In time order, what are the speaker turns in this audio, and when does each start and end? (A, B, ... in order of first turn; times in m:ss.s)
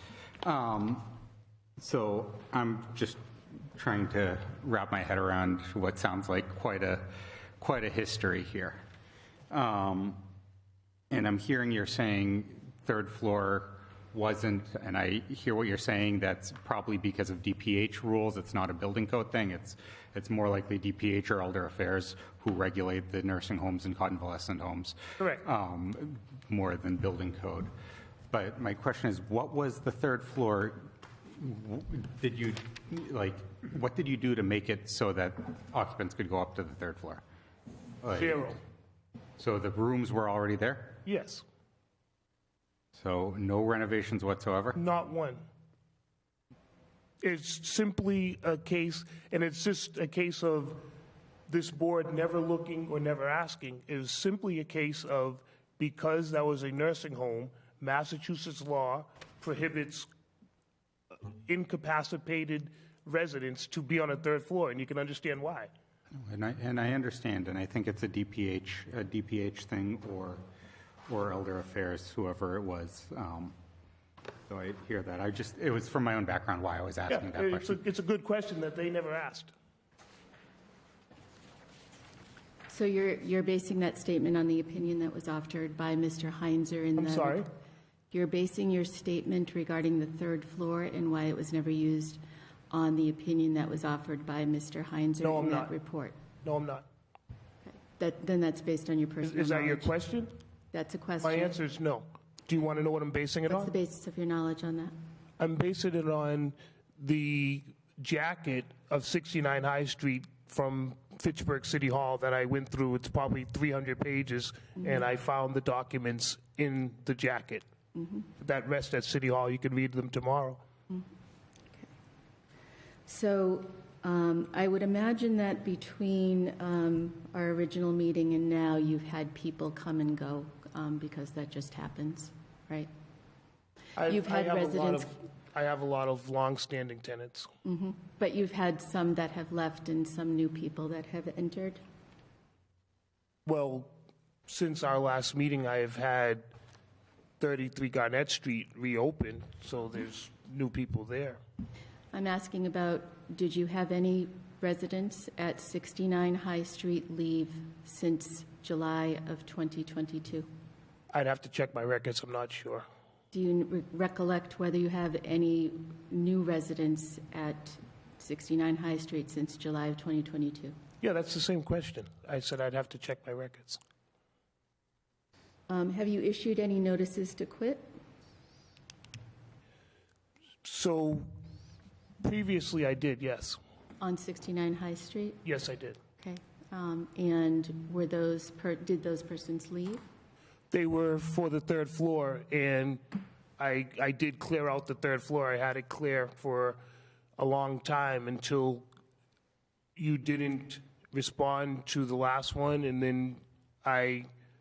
0:00.4-0:01.1 A
0:01.8-0:03.2 A
0:03.8-0:08.8 A
0:09.5-0:10.2 A
0:11.1-0:27.7 A
0:25.2-0:25.4 B
0:28.3-0:37.2 A
0:38.0-0:38.5 A
0:38.2-0:38.6 B
0:39.4-0:41.0 A
0:41.0-0:41.4 B
0:42.9-0:44.8 A
0:44.7-0:45.4 B
0:47.2-0:50.8 B
0:51.5-1:00.1 B
1:01.3-1:05.7 B
1:06.1-1:10.4 A
1:11.1-1:13.5 A
1:14.5-1:17.8 A
1:17.1-1:19.5 B
1:22.7-1:27.4 C
1:27.0-1:27.5 B
1:28.1-1:36.2 C
1:35.2-1:35.7 B
1:36.4-1:36.8 B
1:37.6-1:39.9 C
1:39.2-1:40.3 B
1:40.7-1:41.5 C
1:41.2-1:43.7 B
1:43.5-1:44.9 C
1:45.4-1:57.6 B
1:58.0-1:58.2 C
1:58.4-2:00.6 B
2:03.1-2:12.9 C
2:14.0-2:17.5 B
2:14.0-2:15.1 C
2:17.6-2:21.8 C
2:23.4-2:24.0 B
2:24.5-2:26.5 B
2:27.4-2:31.4 B
2:32.1-2:40.5 C
2:41.1-2:42.8 B
2:43.3-2:50.8 C
2:51.0-2:53.8 B
2:55.7-2:57.9 C
3:00.6-3:01.3 B
3:02.2-3:03.6 B
3:04.0-3:05.4 C
3:05.4-3:06.0 B
3:06.2-3:10.0 C
3:10.7-3:13.0 B
3:13.6-3:16.8 B
3:17.4-3:18.8 B
3:20.0-3:24.3 B